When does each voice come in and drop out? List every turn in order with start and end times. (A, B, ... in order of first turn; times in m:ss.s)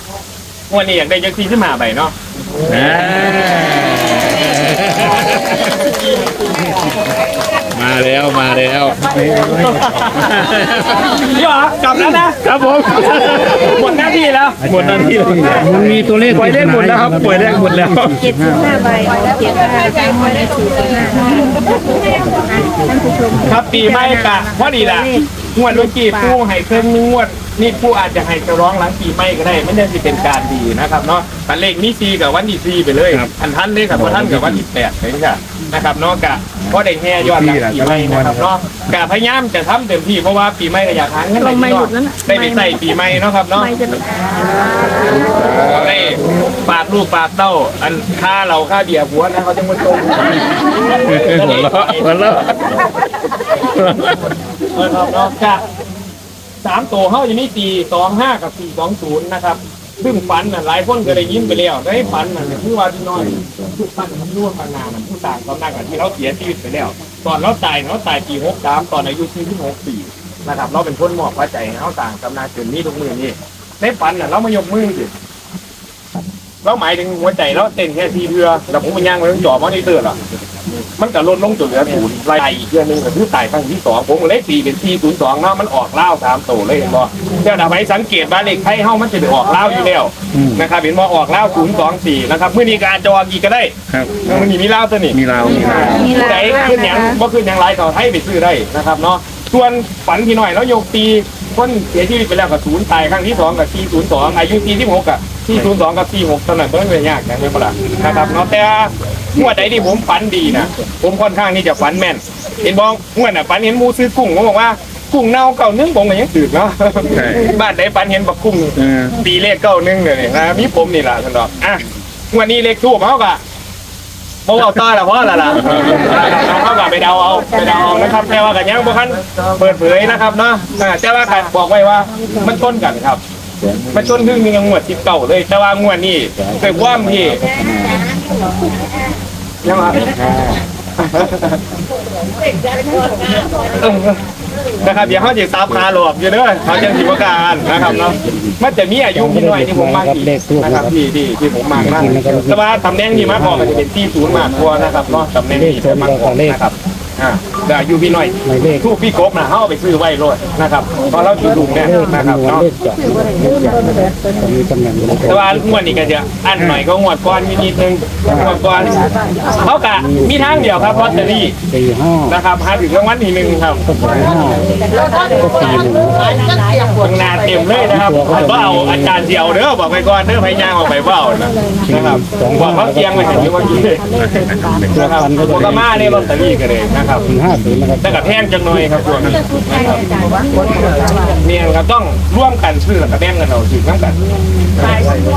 0:00.7-0:02.1 A
0:02.6-0:05.9 B
0:07.7-0:11.2 B
0:09.3-0:10.3 A
0:11.1-0:12.4 A
0:12.4-0:13.9 B
0:13.4-0:15.7 A
0:14.7-0:18.3 B
0:15.5-0:18.7 C
0:18.3-0:21.8 D
0:22.8-0:25.2 D
0:23.4-0:43.7 A
0:33.9-0:34.6 B
0:37.2-0:38.4 B
0:41.4-0:42.8 E
0:43.5-0:44.1 E
0:45.2-0:46.2 B
0:45.6-0:52.4 A
0:51.0-0:52.9 B
0:53.5-0:54.4 B
0:54.7-0:55.6 A
0:56.6-1:15.1 A
1:16.6-1:20.2 A
1:21.0-2:03.4 A
1:30.3-1:30.6 B
1:33.9-1:34.5 B
1:35.1-1:36.2 B
1:36.0-1:36.7 E
1:36.1-1:37.1 D
1:57.1-1:57.5 B
1:58.8-1:59.1 B
2:04.4-2:13.2 A
2:13.9-2:17.4 A
2:19.6-2:21.6 A
2:23.7-2:24.2 A
2:24.8-2:42.7 A
2:29.2-2:30.9 C
2:31.8-2:32.5 C
2:33.3-2:33.6 C
2:35.5-2:36.6 C
2:38.5-2:38.8 C
2:42.1-2:45.8 C
2:45.2-2:51.5 A
2:50.0-2:52.3 C
2:52.3-2:54.3 A
2:53.9-2:54.6 C
2:55.4-2:56.3 C
2:57.0-3:04.0 A
2:58.1-2:59.1 C
3:01.9-3:03.7 C
3:04.2-3:04.9 B
3:04.9-3:07.3 A
3:04.9-3:06.1 C
3:07.3-3:08.2 C
3:08.0-3:10.1 A
3:11.4-3:14.2 A
3:14.7-3:15.1 A